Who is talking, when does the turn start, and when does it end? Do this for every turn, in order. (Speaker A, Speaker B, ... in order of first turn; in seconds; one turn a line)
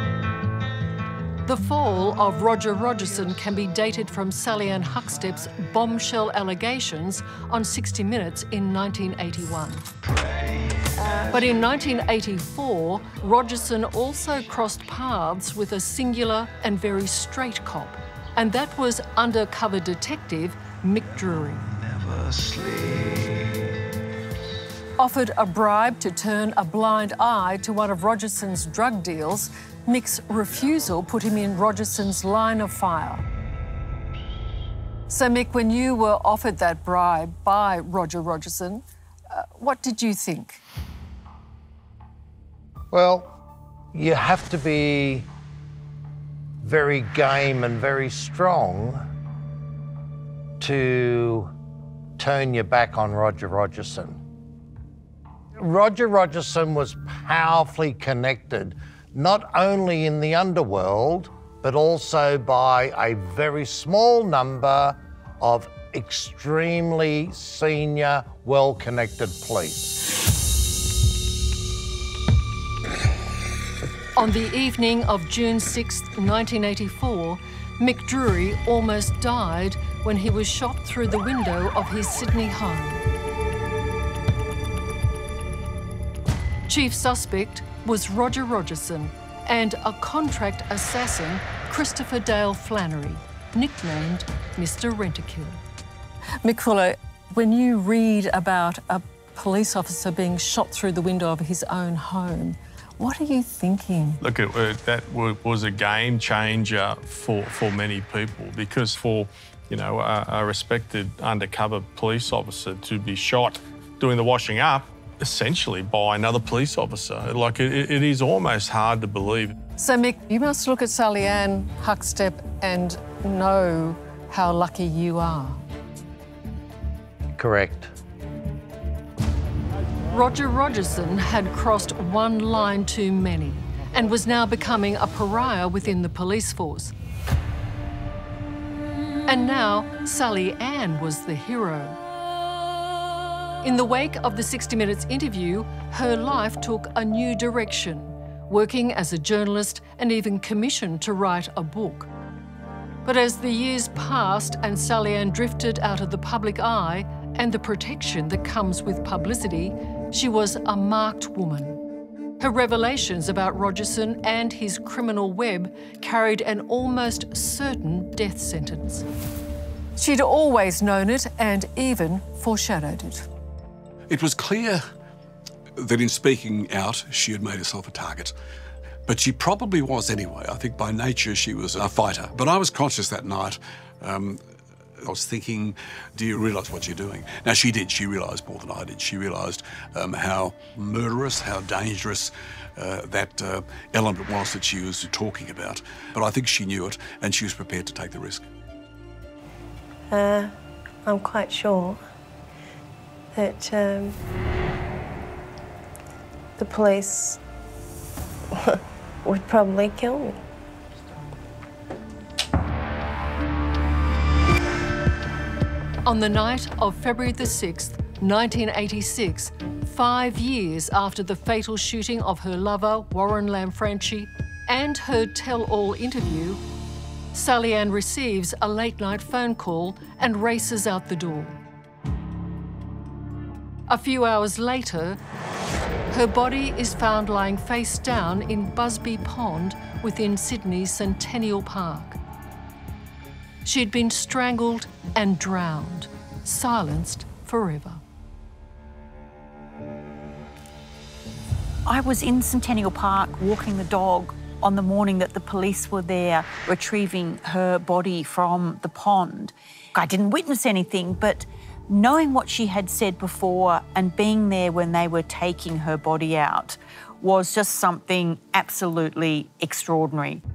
Speaker A: 1.4-9.8
Speaker A: 11.3-21.7
Speaker A: 25.0-33.2
Speaker A: 35.1-38.8
Speaker A: 39.3-40.6
Speaker B: 42.9-43.3
Speaker B: 43.9-45.3
Speaker B: 46.6-49.0
Speaker B: 50.6-51.5
Speaker B: 52.2-54.2
Speaker B: 55.6-70.0
Speaker A: 74.2-83.0
Speaker A: 86.7-95.6
Speaker A: 96.5-104.2
Speaker C: 104.2-119.5
Speaker A: 119.8-125.6
Speaker B: 127.3-127.9
Speaker A: 130.1-136.9
Speaker A: 139.2-142.0
Speaker A: 143.6-152.1
Speaker A: 153.0-161.8
Speaker A: 162.4-169.0
Speaker A: 170.0-173.2
Speaker D: 174.1-174.8
Speaker D: 175.8-178.3
Speaker D: 179.1-184.4
Speaker D: 185.0-198.5
Speaker E: 200.1-200.5
Speaker E: 201.0-202.0
Speaker E: 203.3-204.2
Speaker E: 206.6-207.4
Speaker E: 208.5-210.4
Speaker A: 216.0-226.6
Speaker A: 227.3-231.6
Speaker A: 233.9-235.2
Speaker A: 236.1-242.2
Speaker A: 243.6-248.0
Speaker F: 251.8-270.4